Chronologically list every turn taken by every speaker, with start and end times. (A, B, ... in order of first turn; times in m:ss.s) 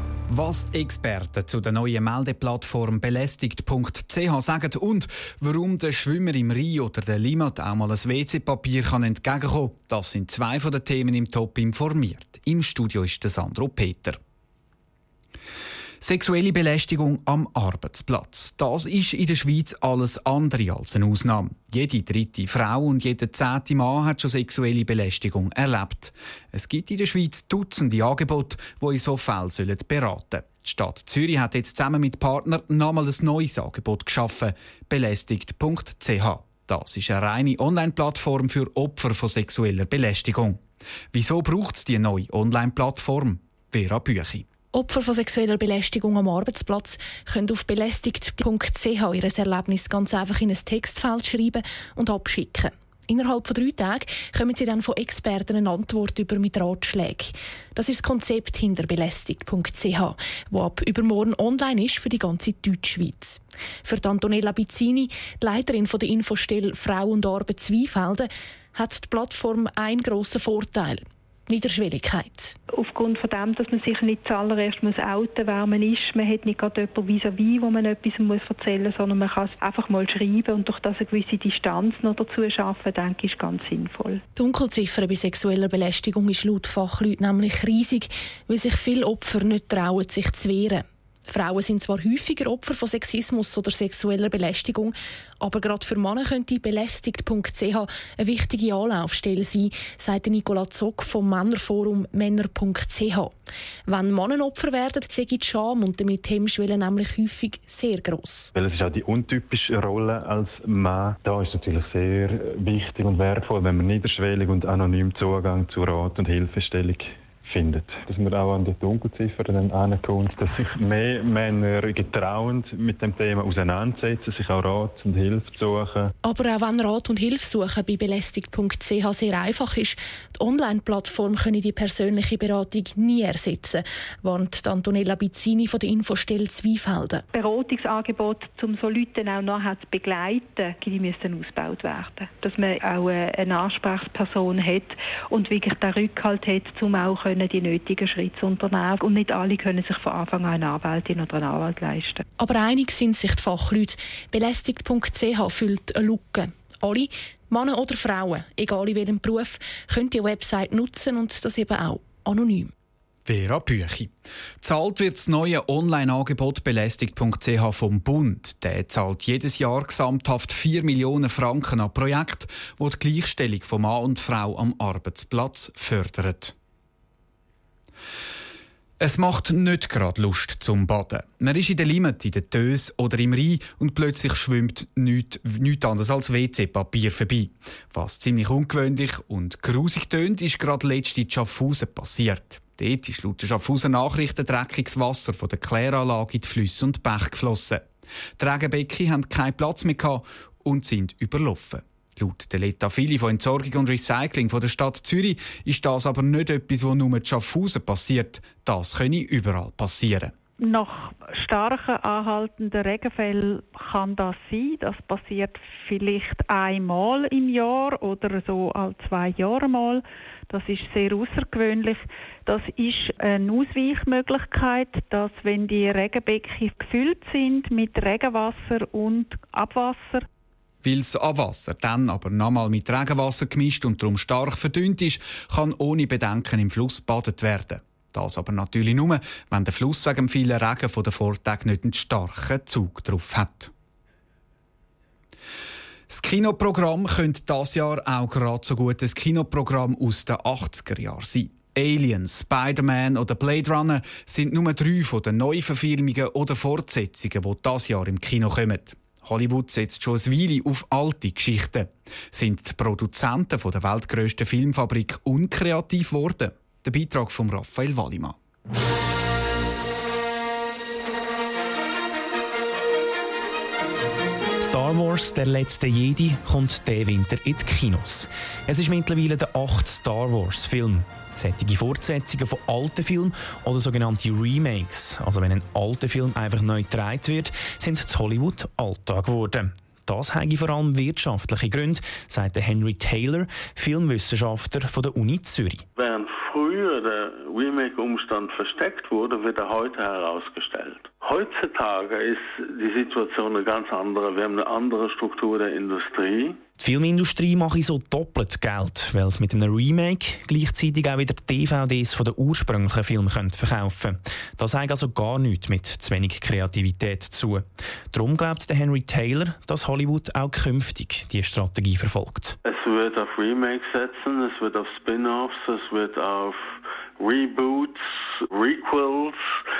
0:00.3-0:14.2 A
0:16.0-0:40.6 A
0:41.1-0:44.4 A
0:44.7-1:12.6 B
1:12.7-1:24.2 C
1:24.4-1:43.3 B
1:43.9-1:48.5 B
1:48.5-2:06.1 D
2:06.2-2:17.2 B
2:17.3-2:32.2 C
2:32.4-2:42.7 B
2:43.2-2:56.5 A
2:59.0-3:17.8 A
3:18.4-3:30.3 A
3:30.6-3:50.2 E
3:50.8-4:03.7 A
4:06.1-4:28.4 A
4:34.6-4:55.8 F
4:56.0-5:06.6 G
5:06.8-5:22.6 F
5:22.6-5:26.5 G
5:27.2-5:28.0 G
5:28.5-5:29.4 G